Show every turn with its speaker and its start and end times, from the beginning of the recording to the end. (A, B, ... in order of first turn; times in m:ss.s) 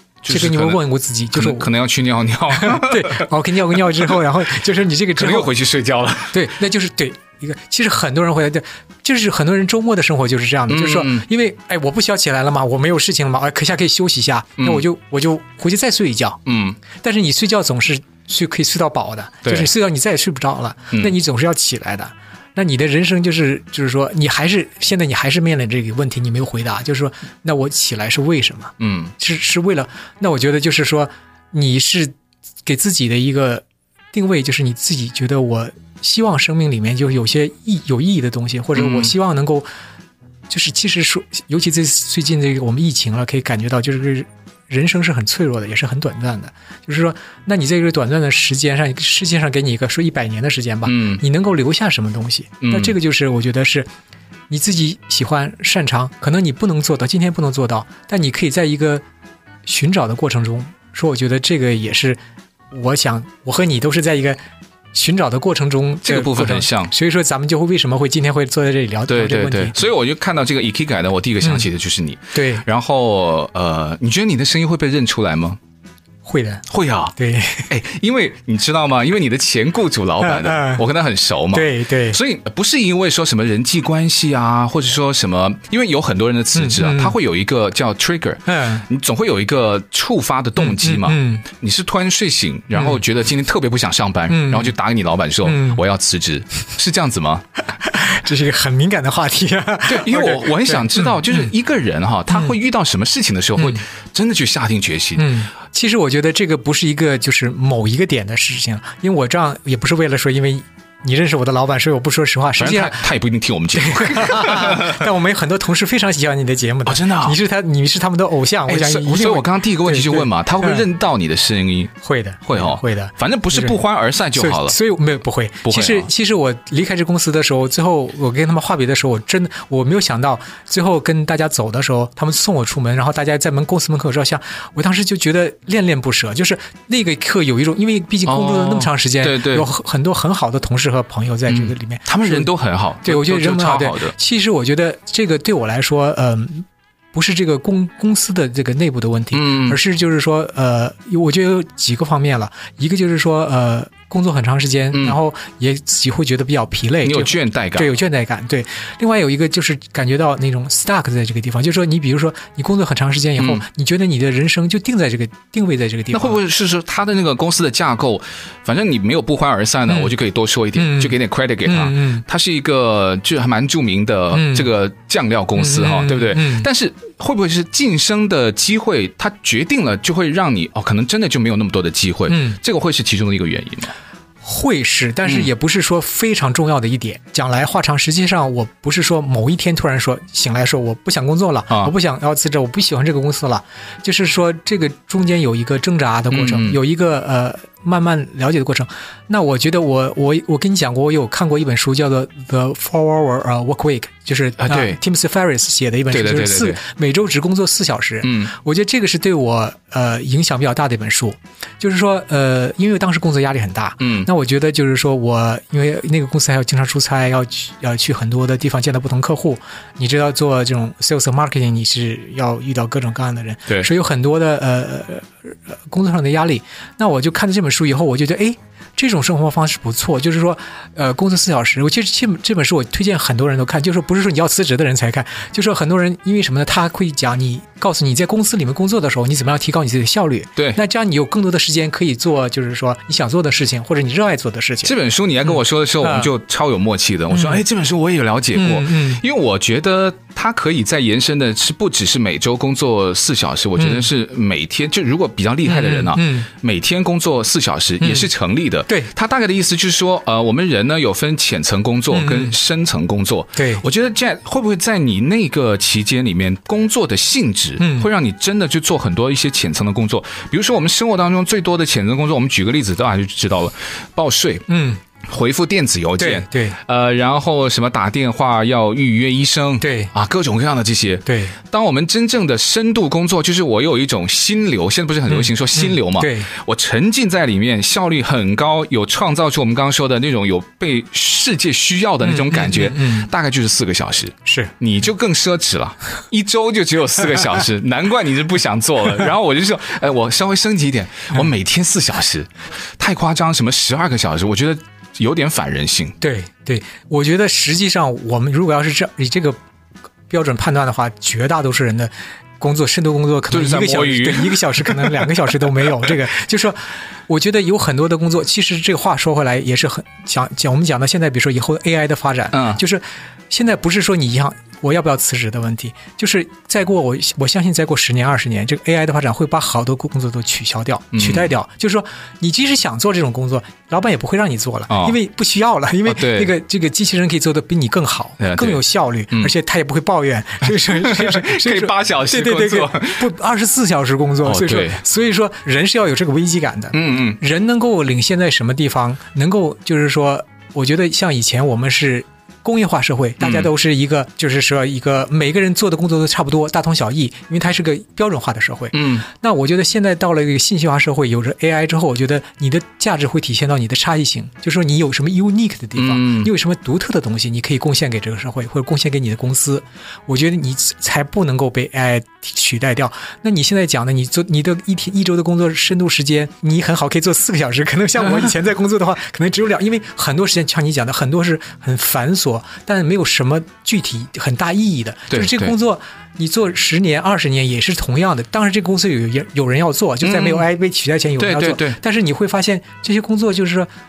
0:00.2-0:00.8 A
0:00.3-0:01.7 B
0:01.3-0:04.2 A
0:02.5-0:05.5 B
0:05.2-0:06.5 A
0:06.3-0:39.7 B
0:10.7-0:11.3 A
0:14.6-0:14.8 A
0:16.5-0:16.8 A
0:19.4-0:19.7 A
0:28.8-0:29.1 A
0:38.8-0:39.1 A
0:40.5-0:53.9 B
0:50.9-0:51.2 A
0:52.6-0:53.0 A
0:54.5-0:59.0 B
0:59.7-1:02.2 B
1:02.7-1:04.4 B
1:04.9-1:09.9 B
1:06.0-1:06.9 A
1:09.1-1:15.6 A
1:12.3-1:12.6 B
1:16.2-1:17.7 B
1:16.7-1:17.2 A
1:17.7-1:37.4 A
1:20.2-1:20.8 B
1:21.5-1:22.2 B
1:26.6-1:27.2 B
1:28.5-1:28.9 B
1:30.6-1:31.4 B
1:32.8-1:33.0 B
1:34.3-1:34.7 B
1:35.4-1:35.8 B
1:37.8-1:41.5 B
1:39.9-1:45.3 A
1:43.6-1:43.8 B
1:45.2-1:53.1 B
1:52.6-1:55.1 A
1:53.7-2:00.9 B
1:56.9-1:57.4 A
1:58.7-2:02.0 A
2:02.0-2:03.8 B
2:02.5-2:04.8 A
2:04.4-2:22.5 B
2:05.7-2:06.1 A
2:18.3-2:19.7 A
2:21.5-2:24.2 A
2:23.0-2:46.4 B
2:29.3-2:29.8 A
2:37.0-2:37.9 A
2:43.4-2:43.6 A
2:46.1-3:03.9 A
2:50.8-2:52.2 B
2:54.3-2:54.7 B
2:55.6-2:56.7 B
3:02.3-3:02.6 B
3:04.4-4:05.0 B
3:16.3-3:16.8 A
3:24.6-3:25.0 A
3:26.1-3:26.8 A
3:28.2-3:28.5 A
3:34.0-3:34.3 A
4:04.8-4:34.7 A
4:06.0-4:06.3 B
4:07.3-4:07.6 B
4:08.5-4:09.2 B
4:13.8-4:14.1 B
4:15.6-4:16.5 B
4:18.0-4:18.3 B
4:22.1-4:22.6 B
4:23.6-4:23.8 B
4:27.8-4:28.1 B
4:34.7-4:35.0 B
4:35.2-5:06.2 A
4:36.2-4:36.8 B
4:39.8-4:40.1 B
4:41.3-4:41.6 B
4:45.3-4:46.5 B
4:52.2-4:53.3 B
4:54.5-4:54.7 B
5:06.2-5:09.6 B
5:10.3-6:33.9 B
5:13.5-5:15.3 A
5:22.5-5:22.8 A
5:31.1-5:31.5 A
5:34.9-5:35.2 A
5:36.1-5:36.5 A
5:38.4-5:39.5 A
5:40.7-5:43.3 A
5:44.4-5:45.0 A
5:46.9-5:47.4 A
5:53.4-5:53.7 A
5:58.9-5:59.3 A
6:06.0-6:06.5 A
6:25.3-6:25.8 A
6:30.2-6:30.7 A
6:31.4-6:32.0 A